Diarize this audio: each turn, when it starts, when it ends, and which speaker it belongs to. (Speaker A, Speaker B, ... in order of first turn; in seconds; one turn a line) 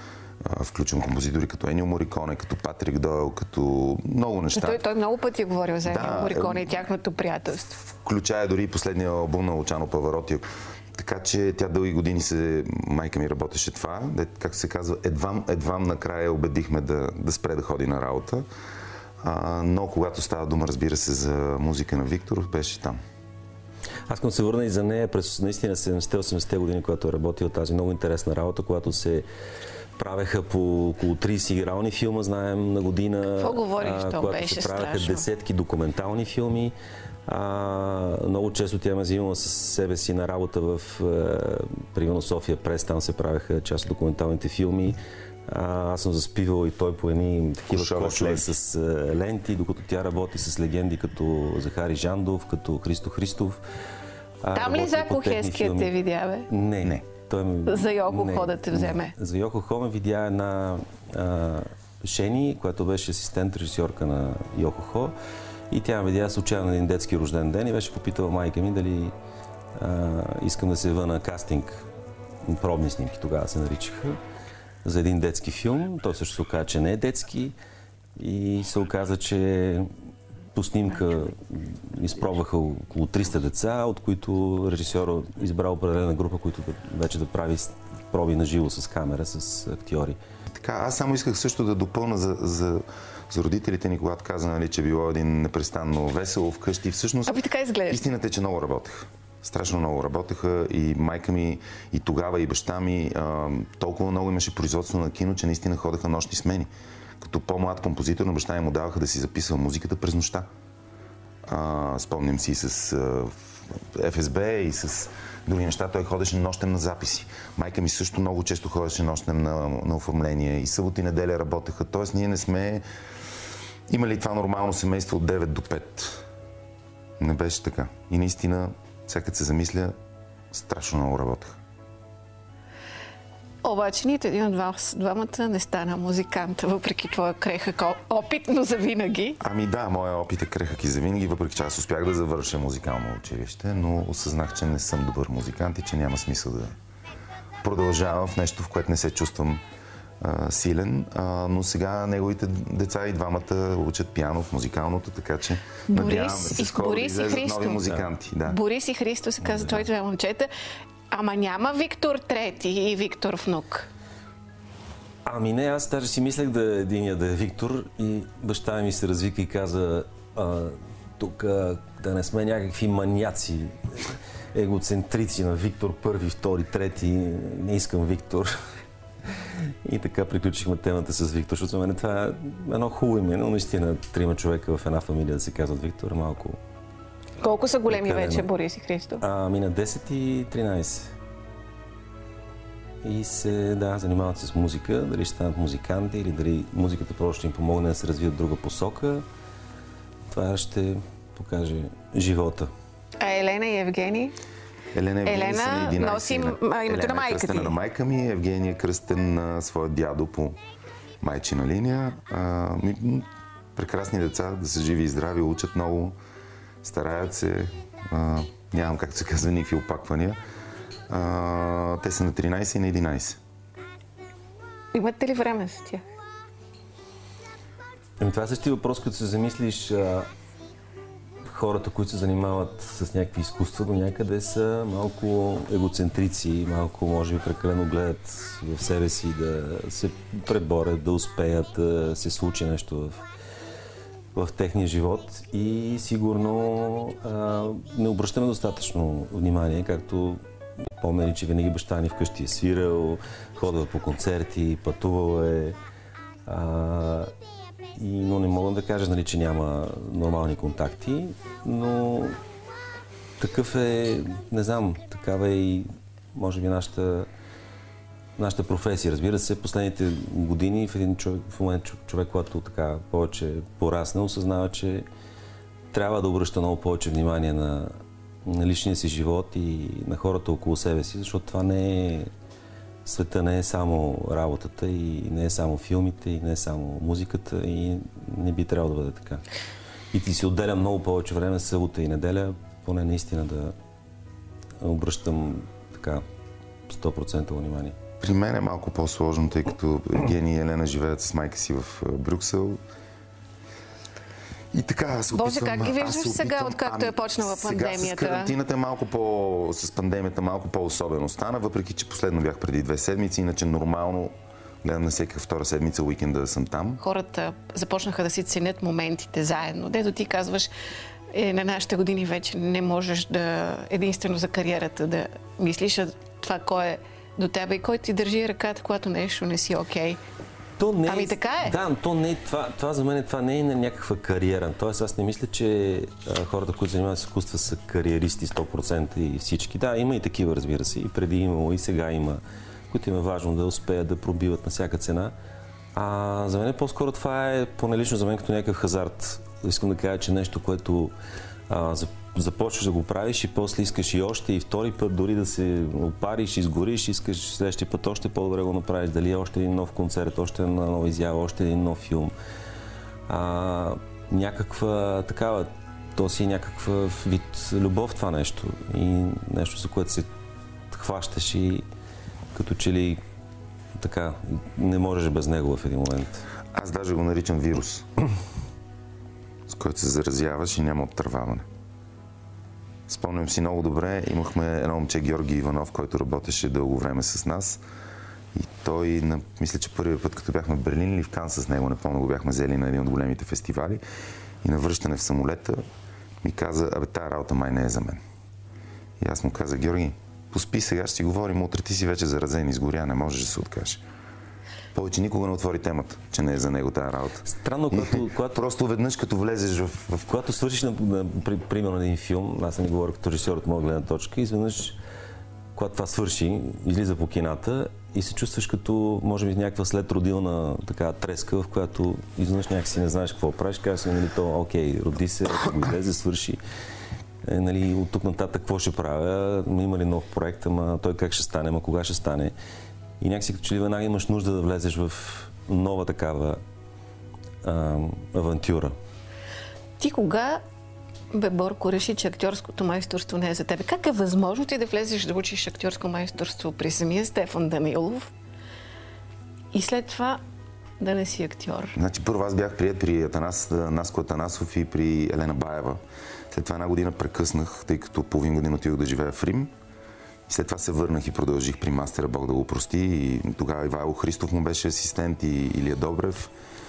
Speaker A: 0.4-4.8
Speaker B: 4.5-7.8
Speaker A: 5.8-6.8
Speaker A: 7.8-18.4
Speaker A: 19.2-23.0
Speaker C: 24.1-29.3
Speaker C: 30.0-36.7
Speaker B: 33.4-35.2
Speaker C: 37.3-53.6
Speaker A: 47.7-48.5
Speaker C: 54.4-55.9
Speaker B: 54.5-56.5
Speaker C: 56.5-65.2
Speaker B: 57.6-59.1
Speaker C: 65.7-69.1
Speaker C: 69.7-71.8
Speaker C: 72.4-74.2
Speaker C: 74.8-77.5
Speaker C: 78.2-79.9
Speaker C: 80.5-90.2
Speaker A: 90.5-110.5
Speaker B: 97.3-98.0
Speaker A: 111.4-122.8
Speaker A: 123.9-126.2
Speaker A: 127.2-129.9
Speaker A: 130.5-131.6
Speaker B: 133.6-139.4
Speaker A: 139.4-146.8
Speaker A: 147.6-149.6
Speaker A: 150.2-158.6
Speaker B: 155.9-157.9
Speaker B: 158.4-160.5
Speaker C: 159.4-159.8
Speaker B: 161.1-163.9
Speaker C: 165.2-178.6
Speaker C: 179.3-186.6
Speaker B: 187.4-189.2
Speaker C: 187.9-188.5
Speaker C: 189.2-191.1
Speaker C: 193.0-199.2
Speaker C: 200.3-202.7
Speaker B: 203.2-204.3
Speaker A: 204.9-210.6
Speaker B: 205.2-207.8
Speaker A: 211.2-216.2
Speaker A: 216.8-220.4
Speaker A: 221.1-223.4
Speaker B: 224.9-226.0
Speaker C: 228.2-230.3
Speaker C: 231.4-243.2
Speaker C: 244.3-250.4
Speaker C: 250.9-255.8
Speaker C: 256.4-257.3
Speaker C: 257.9-262.4
Speaker C: 263.4-267.3
Speaker C: 268.4-275.1
Speaker C: 275.9-282.3
Speaker C: 283.0-289.4
Speaker C: 290.1-293.7
Speaker C: 294.8-296.2
Speaker C: 296.9-298.0
Speaker A: 298.2-302.8
Speaker A: 304.7-317.0
Speaker B: 305.3-308.5
Speaker B: 317.0-320.7
Speaker B: 321.3-330.2
Speaker C: 330.8-345.3
Speaker B: 331.1-331.8
Speaker C: 345.9-351.1
Speaker C: 351.7-362.3
Speaker C: 363.3-370.3
Speaker C: 370.9-371.9
Speaker C: 372.5-373.2
Speaker C: 373.9-376.4
Speaker A: 376.7-378.1
Speaker A: 379.7-381.6
Speaker A: 383.1-387.8
Speaker A: 388.5-394.0
Speaker A: 394.6-395.8
Speaker A: 396.4-398.2
Speaker A: 399.2-404.0
Speaker A: 404.9-410.3
Speaker C: 407.4-408.6
Speaker C: 410.2-415.0
Speaker C: 415.7-426.6
Speaker C: 427.4-432.5
Speaker C: 433.2-436.6
Speaker C: 437.6-438.9
Speaker B: 440.0-440.6
Speaker B: 441.3-448.3
Speaker B: 449.7-450.4
Speaker B: 451.0-451.9
Speaker A: 451.9-459.7
Speaker A: 460.5-466.5